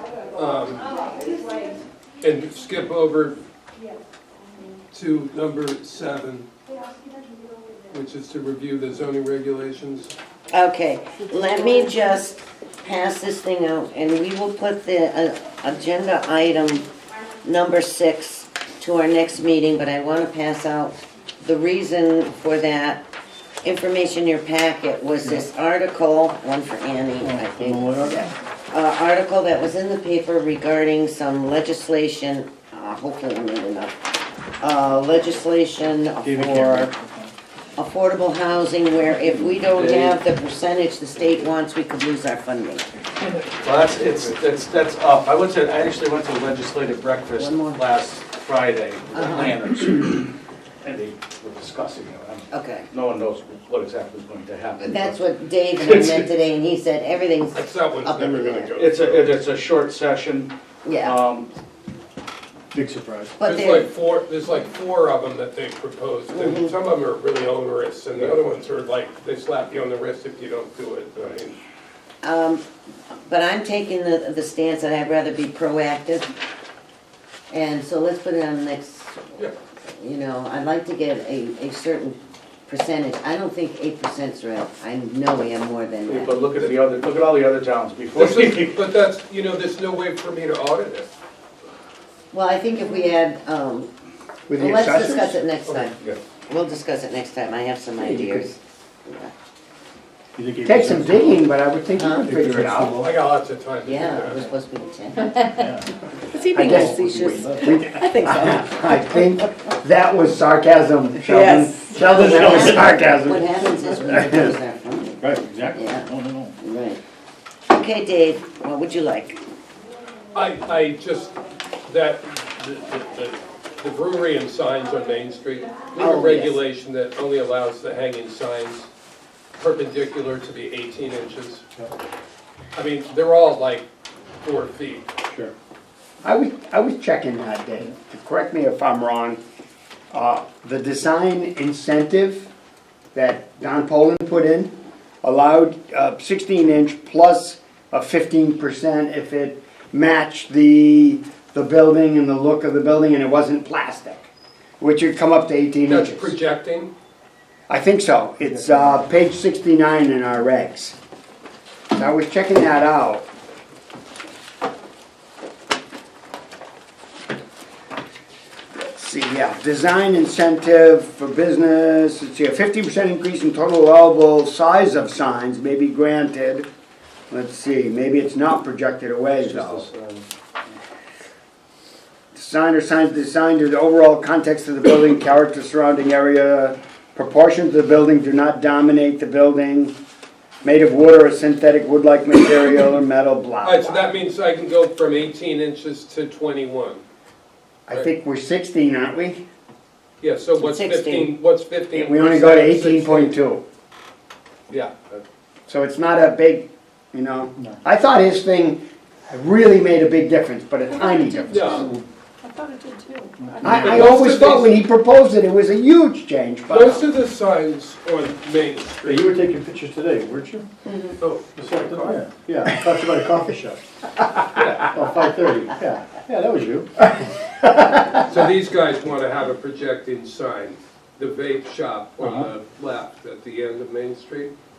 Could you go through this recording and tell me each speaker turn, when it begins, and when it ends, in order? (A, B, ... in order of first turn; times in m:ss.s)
0:00.3-0:00.8 A
0:02.2-0:03.4 A
0:04.9-0:06.5 A
0:07.9-0:10.1 A
0:10.5-0:16.8 B
0:17.4-0:23.0 B
0:23.6-0:33.9 B
0:25.2-0:25.5 C
0:27.2-0:28.3 C
0:34.6-0:36.9 B
0:36.2-0:37.3 C
0:37.8-0:42.8 B
0:39.8-0:40.2 D
0:43.5-0:55.2 D
0:47.4-0:47.8 B
0:49.1-0:49.6 B
0:52.5-0:52.9 B
0:54.8-0:58.7 B
0:55.8-0:56.3 D
0:57.5-0:59.3 A
0:58.8-1:01.5 D
1:00.8-1:01.2 B
1:02.7-1:03.3 C
1:03.4-1:03.9 B
1:03.4-1:11.6 A
1:06.3-1:06.7 B
1:12.2-1:12.6 B
1:13.2-1:16.3 B
1:17.5-1:19.2 B
1:20.0-1:26.3 B
1:26.0-1:28.8 D
1:26.5-1:26.8 A
1:28.2-1:31.1 A
1:32.3-1:33.9 B
1:34.5-1:35.4 E
1:34.6-1:39.3 B
1:38.0-1:38.4 C
1:40.4-1:41.5 C
1:40.6-1:43.1 E
1:42.0-1:42.3 B
1:42.2-1:43.0 C
1:43.0-1:44.5 A
1:43.8-1:45.5 B
1:45.5-1:45.9 C
1:46.3-1:49.2 F
1:46.5-1:54.5 E
1:46.5-1:47.6 B
1:51.2-1:52.7 F
1:52.1-1:55.2 B
1:55.2-1:56.5 C
1:55.7-1:56.1 B
1:56.6-1:57.0 B
1:57.7-1:59.4 B
2:00.3-2:01.3 A
2:01.8-2:08.9 A
2:06.0-2:06.6 B
2:09.6-2:11.6 A
2:12.7-2:13.8 A
2:14.4-2:15.1 A
2:16.2-2:19.4 E
2:20.1-2:22.5 E
2:23.1-2:36.3 E
2:35.8-2:36.9 A
2:37.7-2:41.0 E
2:41.9-2:43.2 E
2:48.8-2:56.7 E
2:57.3-2:59.8 E
2:59.4-3:00.3 D
3:02.3-3:10.0 E
3:10.6-3:14.1 E
3:13.6-3:17.0 A
3:17.9-3:19.4 E
3:20.2-3:23.3 A
3:20.6-3:21.3 B
3:21.9-3:23.6 E
3:24.7-3:25.2 A
3:25.7-3:31.9 E
3:31.0-3:31.9 F
3:31.5-3:31.9 A
3:32.4-3:34.0 F
3:33.4-3:33.7 C
3:33.6-3:37.1 E
3:33.7-3:34.8 A
3:36.7-3:39.3 A
3:39.0-3:40.6 C
3:40.8-3:41.2 B
3:41.2-3:42.2 A
3:41.6-3:43.8 C
3:44.6-3:46.9 C
3:48.3-3:54.5 A
3:52.2-3:52.5 C